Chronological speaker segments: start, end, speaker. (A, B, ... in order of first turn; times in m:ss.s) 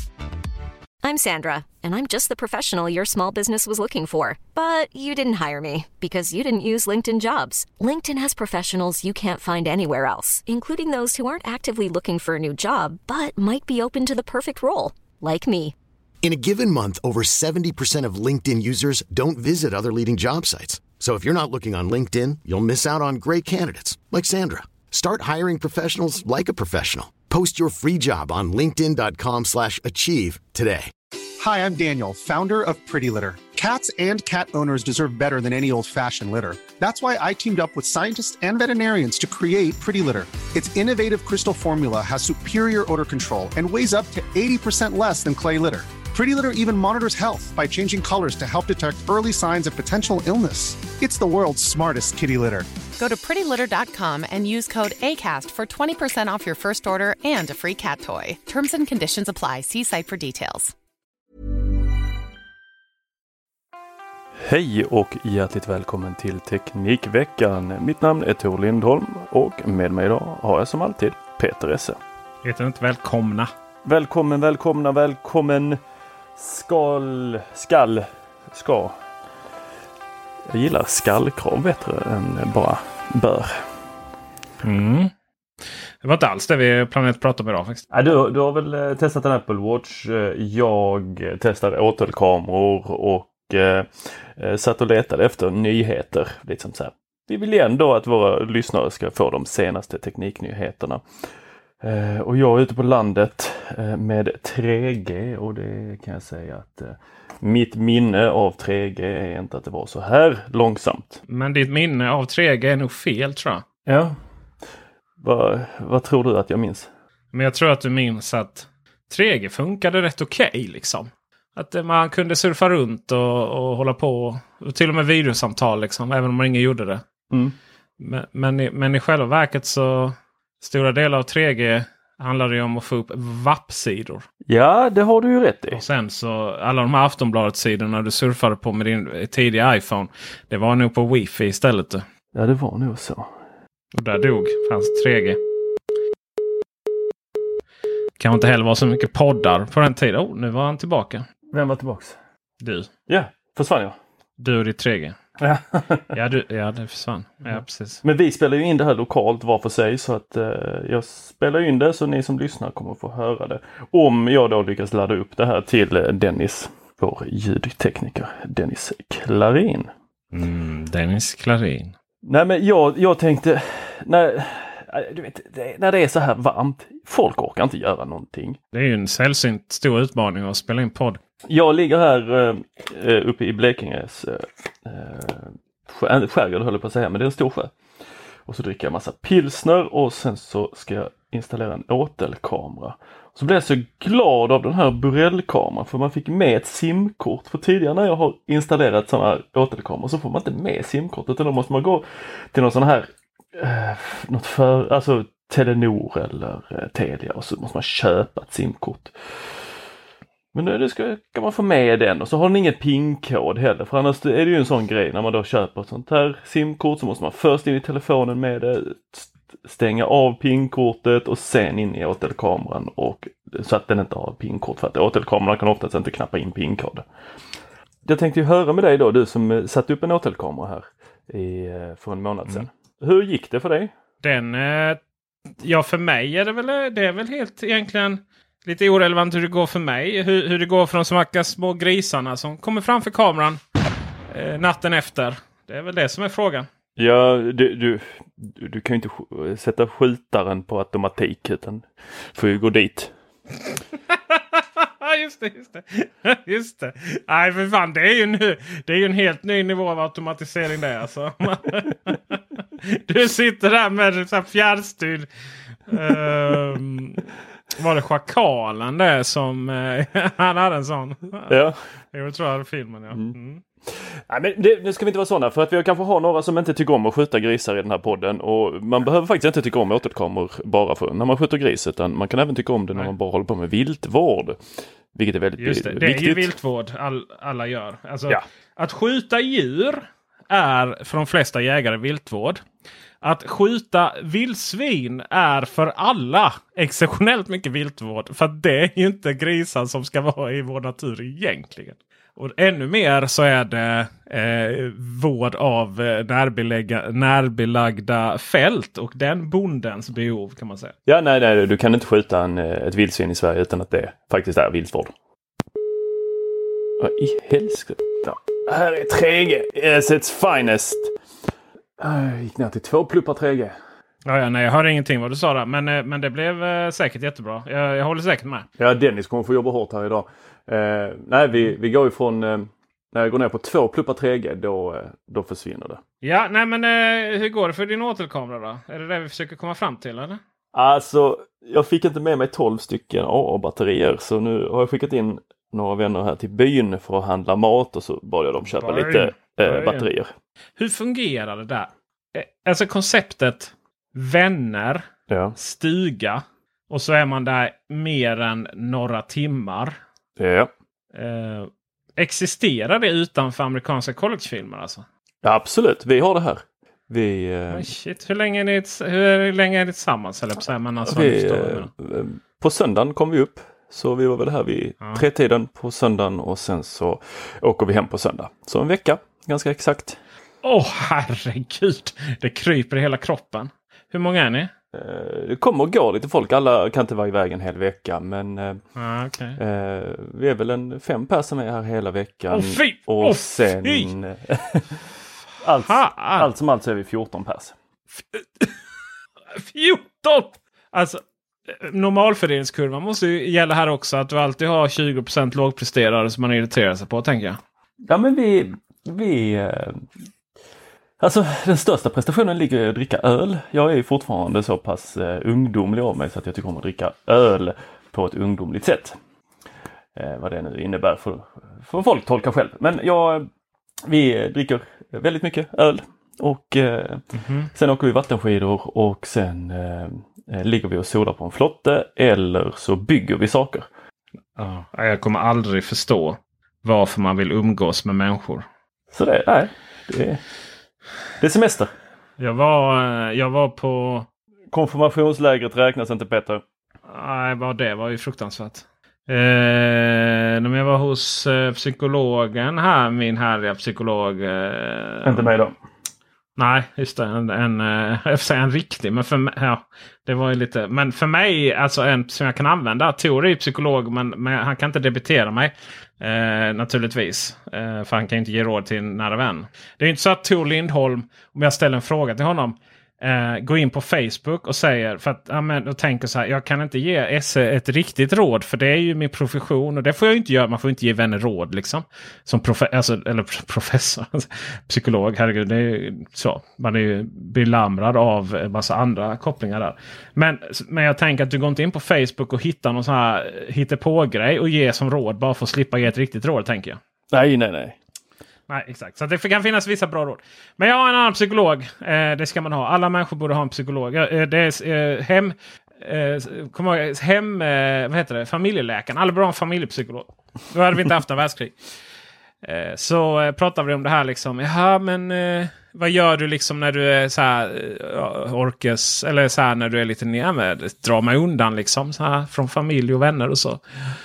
0:01.0-0:15.7 A
0:16.2-0:30.9 B
0:31.4-0:52.7 C
0:53.0-1:00.7 D
1:04.4-1:12.0 E
1:12.4-1:13.5 F
1:13.8-1:15.8 E
1:16.4-1:19.0 E
1:20.5-1:23.6 E
1:24.6-1:25.1 F
1:26.0-1:27.8 F
1:27.9-1:41.0 E
1:41.8-1:51.2 E
1:51.3-1:53.6 F
1:53.8-1:54.2 E
1:55.2-1:56.9 E
1:57.3-2:07.0 F
2:07.3-2:07.6 E
2:08.0-2:14.2 F
2:14.5-2:15.8 E
2:15.7-2:22.0 F
2:22.3-2:23.3 E
2:23.9-2:25.4 F
2:28.2-2:31.2 F
2:31.5-2:32.2 E
2:32.6-2:32.9 F
2:33.1-2:34.0 E
2:34.4-2:35.2 F
2:35.4-2:36.1 E
2:36.1-2:38.0 F
2:38.0-2:49.9 E
2:50.3-2:51.9 F
2:52.2-2:58.6 E
2:58.7-3:01.2 F
3:01.5-3:07.7 E
3:08.4-3:29.1 E
3:30.5-3:47.0 E
3:48.0-3:53.9 E
3:54.2-3:55.0 F
3:55.6-4:03.6 F
4:04.3-4:06.7 F
4:07.0-4:13.1 E
4:14.1-4:25.3 F
4:25.9-4:31.6 F
4:31.5-4:31.8 E
4:32.1-4:33.6 F
4:33.8-4:44.6 E
4:45.1-4:46.5 E
4:45.6-4:52.6 F
4:53.2-5:10.9 F
5:11.0-5:15.1 E
5:17.0-5:21.2 E
5:22.0-5:23.8 E
5:24.2-5:28.7 F
5:28.8-5:36.0 E
5:36.2-5:40.4 F
5:40.7-5:50.3 E
5:48.8-5:50.1 F
5:50.8-5:55.0 F
5:55.3-5:55.6 E
5:55.6-6:00.0 F
6:00.4-6:00.7 E
6:01.1-6:05.0 F
6:05.4-6:07.9 E
6:07.7-6:11.9 F
6:11.0-6:20.2 E
6:20.6-6:24.7 F
6:24.9-6:28.8 E
6:29.0-6:29.6 F
6:29.6-6:35.0 E
6:32.5-6:34.1 F
6:35.6-6:37.7 E
6:35.8-6:36.5 F
6:38.3-6:38.8 F
6:39.5-6:47.6 F
6:48.1-6:50.1 E
6:51.2-6:59.2 E
7:00.1-7:03.5 E
7:04.0-7:13.9 E
7:07.3-7:07.7 F
7:14.6-7:18.6 F
7:19.1-7:20.4 E
7:21.4-7:21.9 E
7:22.4-7:24.3 F
7:24.7-7:26.6 E
7:27.1-7:35.5 F
7:35.2-7:35.8 E
7:36.6-8:17.0 F
8:17.3-8:18.0 E
8:18.7-8:31.8 F
8:32.6-8:43.8 F